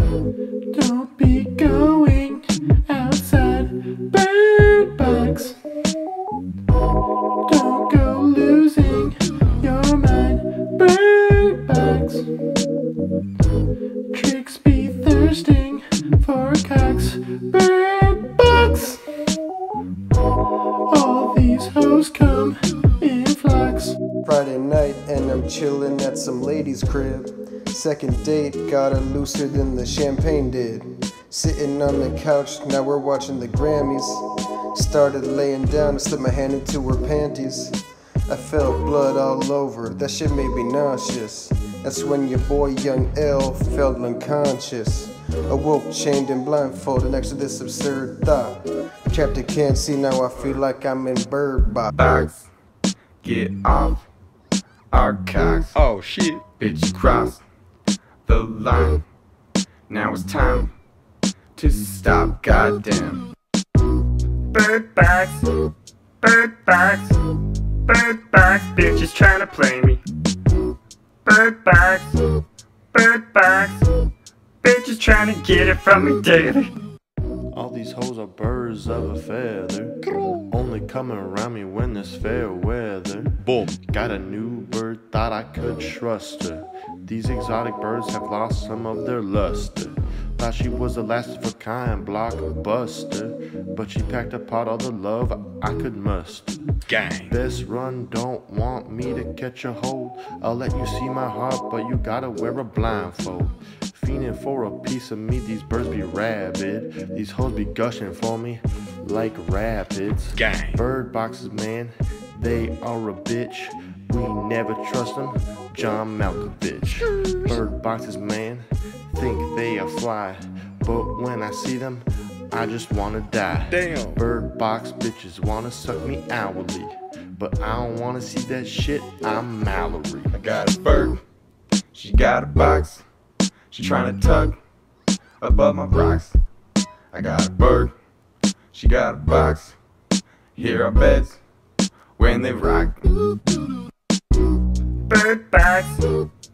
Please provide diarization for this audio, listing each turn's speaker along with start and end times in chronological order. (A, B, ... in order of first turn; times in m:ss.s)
0:00.7-0:05.6 A
0:07.4-0:12.3 A
0:14.1-0:19.0 A
0:20.9-0:24.0 A
0:24.2-0:37.8 B
0:38.3-0:51.9 B
0:51.9-0:52.5 C
0:53.2-0:54.1 C
0:54.9-0:55.8 C
0:55.8-0:56.5 D
0:56.5-0:57.4 C
0:58.2-0:59.1 C
0:59.9-1:00.8 C
1:01.6-1:03.3 C
1:04.5-1:05.5 E
1:06.2-1:07.2 E
1:07.9-1:10.0 E
1:11.2-1:12.2 E
1:12.9-1:13.9 E
1:14.6-1:16.7 E
1:17.5-1:36.6 F
1:20.1-1:20.5 D
1:36.9-1:37.3 D
1:37.2-2:10.4 F
1:50.4-1:50.8 D
2:03.7-2:04.2 D
2:10.3-2:11.2 C
2:11.9-2:13.0 C
2:13.7-2:14.6 C
2:15.4-2:16.4 C
2:17.1-2:18.0 C
2:18.7-2:19.8 C
2:20.6-2:21.4 C
2:22.2-2:23.1 C
2:25.1-2:26.0 E